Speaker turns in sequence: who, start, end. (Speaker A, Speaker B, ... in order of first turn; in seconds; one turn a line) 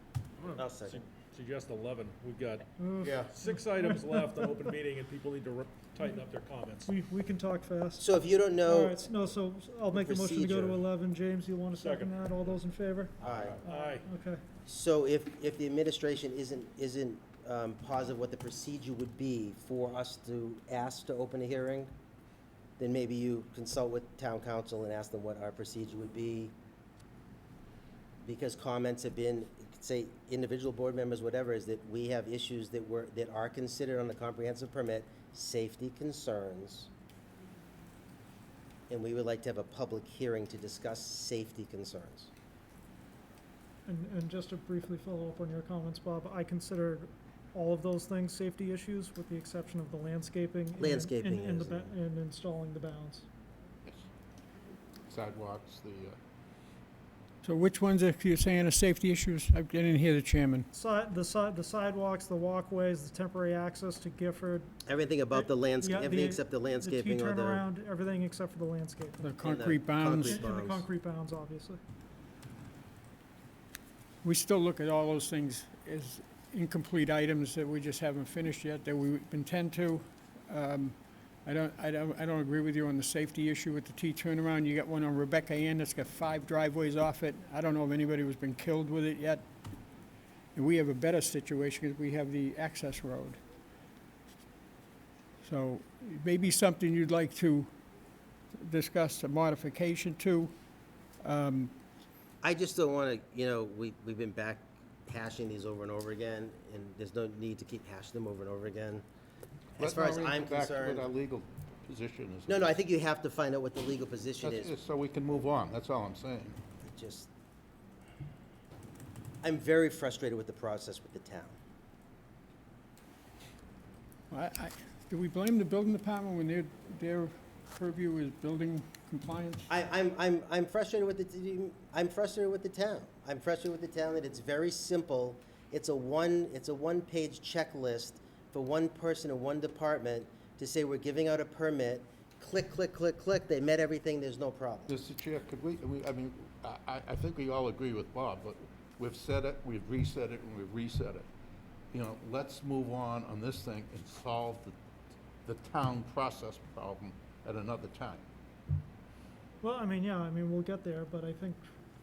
Speaker A: 0.4-7.0
Speaker B: 0.6-1.0
Speaker C: 2.8-4.7
Speaker B: 3.0-3.3
Speaker C: 6.9-8.1
Speaker B: 8.0-9.1
Speaker C: 8.7-14.4
Speaker B: 9.9-10.8
Speaker A: 11.8-12.6
Speaker B: 13.2-13.6
Speaker A: 13.2-14.1
Speaker B: 14.7-21.9
Speaker B: 22.8-26.5
Speaker B: 28.2-36.9
Speaker B: 38.9-42.3
Speaker C: 43.9-53.2
Speaker B: 50.8-51.9
Speaker D: 55.1-56.2
Speaker E: 57.4-60.7
Speaker C: 60.7-64.7
Speaker B: 64.8-67.6
Speaker C: 65.3-69.3
Speaker E: 69.2-70.4
Speaker B: 69.4-70.9
Speaker C: 70.3-71.8
Speaker E: 74.2-89.5
Speaker E: 90.5-93.4
Speaker E: 95.4-97.7
Speaker E: 98.5-100.5
Speaker E: 101.2-101.7
Speaker B: 102.4-109.0
Speaker B: 109.8-111.1
Speaker D: 109.8-112.8
Speaker B: 112.5-114.7
Speaker D: 114.4-116.6
Speaker B: 116.8-117.3
Speaker B: 119.4-121.6
Speaker E: 124.3-129.7
Speaker B: 129.7-144.9
Speaker D: 144.9-151.3
Speaker D: 151.9-154.8
Speaker D: 155.4-158.2
Speaker C: 159.6-161.7